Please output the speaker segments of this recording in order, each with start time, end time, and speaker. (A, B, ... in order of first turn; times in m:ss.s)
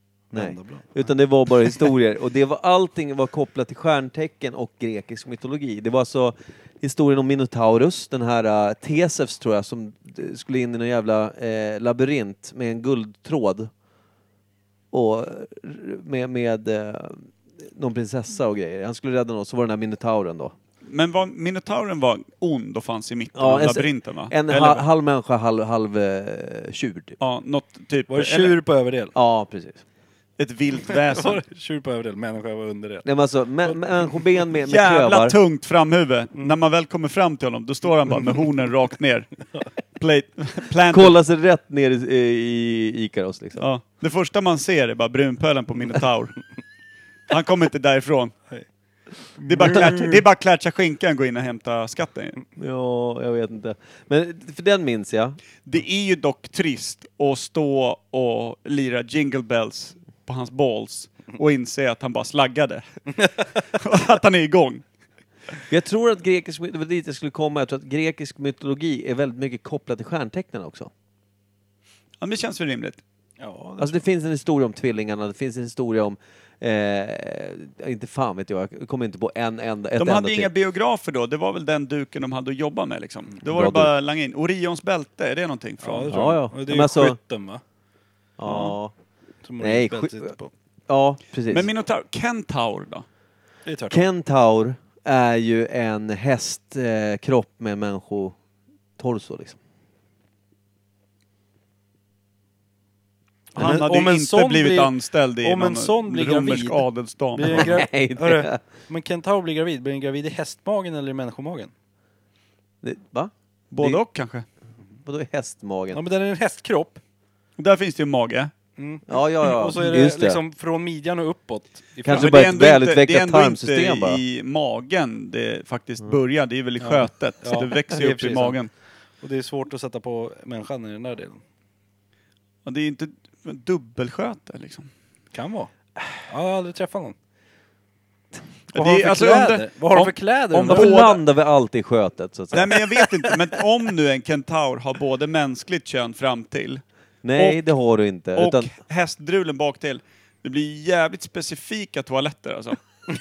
0:00.3-0:01.1 A
0:00.3-0:13.7 B
0:14.9-0:20.5 B
0:20.8-0:24.8 C
0:23.3-0:27.2 B
0:27.2-0:28.6 C
0:28.1-0:29.1 A
0:29.1-0:29.8 B
0:30.4-0:31.4 C
0:30.9-0:33.1 A
0:33.0-0:35.4 B
0:33.6-0:34.2 A
0:34.7-0:39.3 C
0:40.0-0:41.2 C
0:40.9-0:43.6 B
0:43.6-0:46.4 C
0:47.3-0:48.4 C
0:49.4-0:49.9 A
0:49.4-0:52.4 C
0:49.7-0:50.0 B
0:52.6-0:55.4 B
0:55.6-1:04.8 C
1:05.7-1:10.9 B
1:12.2-1:13.0 C
1:13.4-1:14.0 A
1:13.8-1:20.5 B
1:20.0-1:26.2 C
1:23.4-1:23.9 B
1:25.8-1:27.6 A
1:26.1-1:27.2 B
1:28.4-1:28.9 B
1:29.4-1:30.5 A
1:29.6-1:30.3 B
1:30.9-1:31.7 B
1:31.5-1:33.0 C
1:33.6-1:34.0 A
1:33.9-1:38.4 B
1:39.0-1:39.6 B
1:43.5-1:51.7 A
1:43.6-1:47.8 C
1:47.5-1:48.6 B
1:52.8-1:54.0 B
1:53.7-1:54.4 C
1:55.0-1:56.0 B
1:55.9-1:57.0 A
1:57.6-1:58.5 C
1:58.8-2:02.4 A
1:59.1-2:00.4 B
2:02.0-2:04.2 B
2:02.1-2:08.7 C
2:06.8-2:08.6 A
2:09.2-2:11.4 A
2:12.6-2:14.9 C
2:15.3-2:15.7 A
2:16.2-2:17.2 A
2:18.7-2:21.2 A
2:18.7-2:21.2 C
2:20.6-2:23.1 B
2:22.5-2:26.8 C
2:27.2-2:28.7 B
2:27.4-2:27.6 C
2:28.4-2:32.8 C